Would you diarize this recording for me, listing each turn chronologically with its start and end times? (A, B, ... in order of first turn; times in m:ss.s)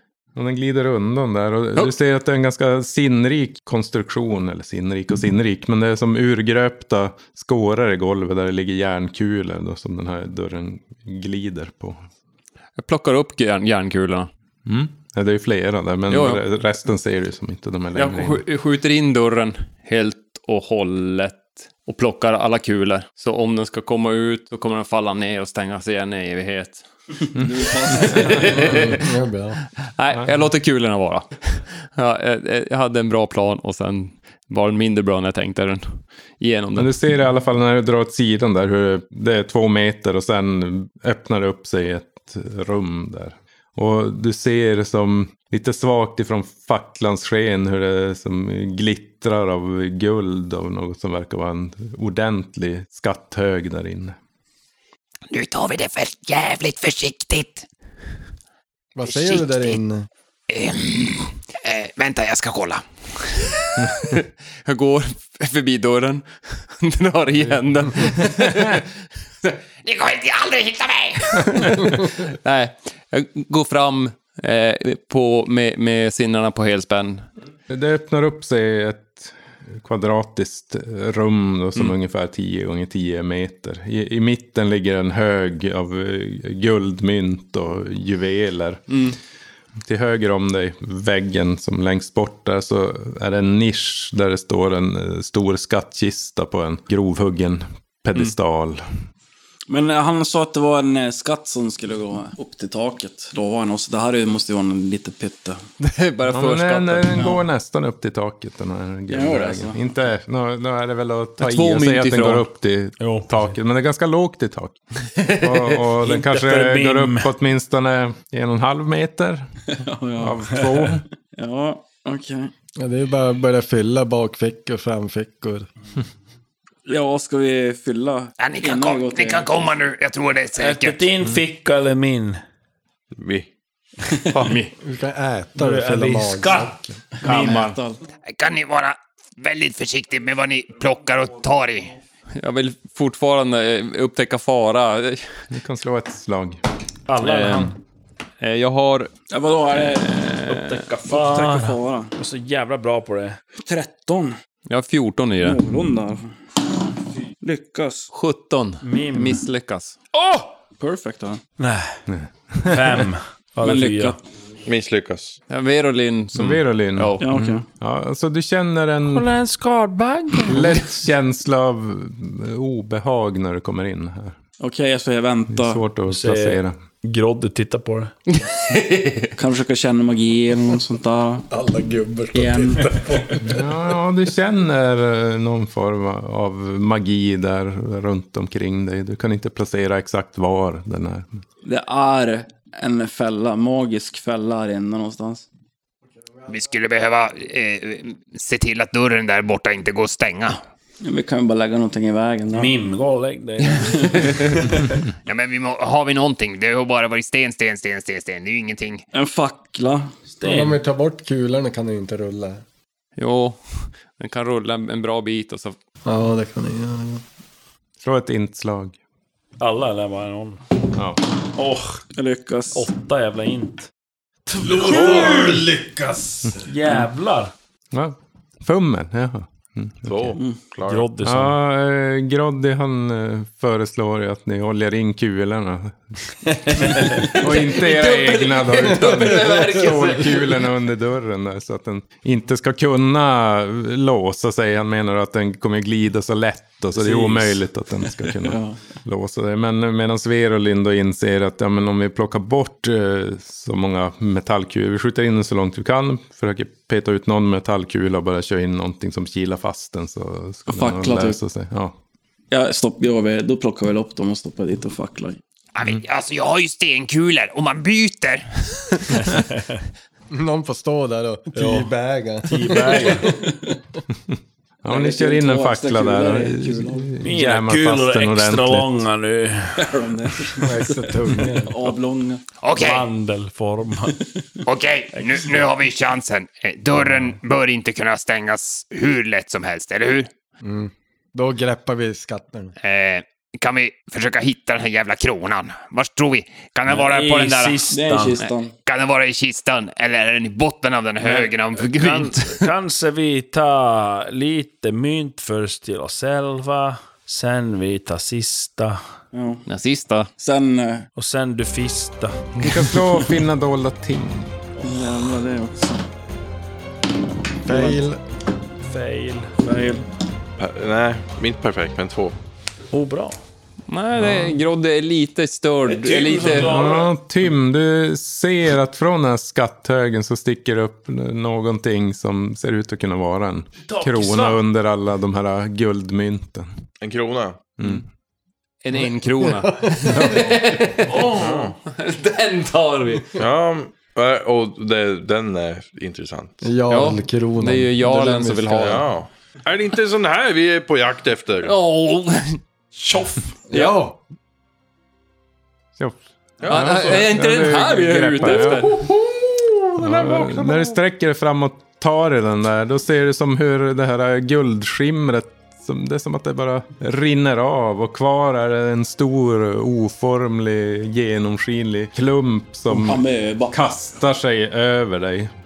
0:00.4-0:12.0 A
0:12.8-0:14.3 B
0:14.7-0:18.4 A
0:16.1-0:16.4 B
0:17.9-0:26.8 B
0:27.4-0:28.9 C
0:27.9-0:29.0 B
0:28.5-0:29.6 D
0:30.0-0:37.0 B
0:36.8-0:54.2 A
0:55.3-0:57.7 E
0:59.0-1:00.1 D
0:59.1-0:59.8 E
1:00.5-1:04.0 E
1:04.2-1:08.9 B
1:09.8-1:11.8 E
1:11.4-1:17.3 B
1:17.7-1:29.1 A
1:28.9-1:29.2 B
1:29.8-1:38.8 A
1:39.7-1:45.6 C
1:45.8-1:47.2 B
1:46.3-1:54.8 A
1:47.2-1:47.4 C
1:49.1-1:49.8 C
1:51.4-1:52.5 B
1:53.0-1:53.5 F
1:55.2-1:55.7 B
1:55.3-1:59.5 A
1:56.0-1:57.3 F
1:59.7-2:02.5 C
2:00.2-2:01.0 A
2:02.8-2:05.7 D
2:06.9-2:09.7 C
2:08.4-2:11.1 E
2:10.6-2:12.4 F
2:13.1-2:13.5 G
2:14.3-2:14.6 G
2:14.4-2:14.7 B
2:14.8-2:17.0 D
2:15.6-2:17.7 F
2:17.2-2:18.0 C
2:17.2-2:17.7 A
2:18.3-2:22.0 E
2:22.4-2:25.4 B
2:25.5-2:26.6 A
2:27.1-2:27.8 F
2:27.2-2:27.7 B
2:28.4-2:29.1 B
2:29.3-2:30.2 C
2:29.7-2:30.8 B
2:30.5-2:33.4 F
2:31.1-2:32.1 C
2:33.6-2:34.4 C
2:34.7-2:35.6 B
2:35.4-2:36.4 C
2:37.4-2:38.1 C
2:38.1-2:40.0 B
2:38.8-2:39.4 F
2:40.1-2:40.5 F
2:40.8-2:41.4 C
2:41.6-2:42.0 F
2:42.1-2:43.0 A
2:42.6-2:44.2 F
2:43.6-2:44.2 C
2:44.7-2:45.4 G
2:45.5-2:47.3 B
2:46.4-2:49.3 A
2:47.2-2:47.6 C
2:49.2-2:50.4 F
2:50.5-2:54.4 A
2:54.6-2:55.8 C
2:55.5-2:56.8 A
2:56.1-2:58.1 F
2:58.3-2:59.3 B
2:59.4-3:01.5 C
3:01.5-3:03.6 D
3:02.3-3:02.9 C
3:03.5-3:11.4 A
3:11.6-3:15.5 C
3:16.5-3:20.6 E
3:21.0-3:22.7 C
3:22.5-3:24.8 F
3:25.3-3:29.0 E
3:29.1-3:30.1 C
3:30.4-3:30.8 F
3:30.4-3:32.6 D
3:33.2-3:35.8 B
3:36.0-3:37.2 D
3:38.0-3:39.0 A
3:39.6-3:40.6 F
3:41.0-3:41.2 A
3:41.6-3:42.0 F
3:42.1-3:42.9 C
3:42.7-3:43.9 F
3:44.5-3:45.6 F
3:44.6-3:46.7 D
3:44.9-3:45.3 G
3:46.7-3:47.5 F
3:47.9-3:50.4 A
3:50.1-3:51.1 G
3:50.9-3:51.5 F
3:51.2-3:56.2 A
3:56.7-4:22.0 A
3:57.2-4:00.4 B
3:59.1-3:59.4 D
4:08.4-4:08.8 C
4:20.7-4:21.4 C
4:22.5-4:25.4 C
4:25.8-4:29.1 E
4:30.3-4:33.8 D
4:31.6-4:31.9 F
4:32.4-4:33.4 F
4:33.0-4:33.4 C
4:34.3-4:39.0 A
4:34.9-4:37.1 C
4:37.2-4:39.9 F
4:39.8-4:40.7 C
4:40.6-4:41.8 D
4:41.6-4:42.4 C
4:42.6-4:43.1 E
4:42.8-4:44.2 F
4:44.6-4:50.3 E
4:50.6-4:52.7 D
4:52.8-4:57.9 E
4:56.9-4:58.4 F
4:57.9-4:58.7 C
4:58.9-5:02.3 E
5:01.4-5:02.6 B
5:02.0-5:09.0 F
5:09.3-5:09.6 C
5:09.7-5:10.3 B
5:10.4-5:11.1 C
5:11.2-5:13.0 F
5:12.6-5:14.6 A
5:14.8-5:16.0 C
5:17.6-5:18.2 D
5:17.7-5:18.0 C
5:18.8-5:19.6 F
5:19.6-5:20.0 C
5:20.6-5:22.4 G
5:22.9-5:23.4 F
5:23.9-5:26.8 B
5:24.2-5:24.6 A
5:25.9-5:27.1 F
5:26.5-5:36.7 A
5:33.9-5:34.6 F
5:37.0-5:37.8 G
5:37.8-5:38.0 A
5:38.8-5:43.4 B
5:39.0-5:40.4 D
5:41.1-5:41.7 F
5:41.3-5:41.7 G
5:43.4-5:46.7 G
5:46.6-5:49.0 D
5:46.9-5:49.0 B
5:48.8-5:51.8 G
5:51.6-5:52.6 B
5:53.0-5:53.4 F
5:53.7-5:54.2 D
5:53.7-5:54.0 B
5:56.0-5:59.1 A
5:56.6-5:57.2 G
5:56.6-5:59.1 B
5:58.6-6:00.9 G
6:00.0-6:15.5 A
6:12.9-6:13.8 C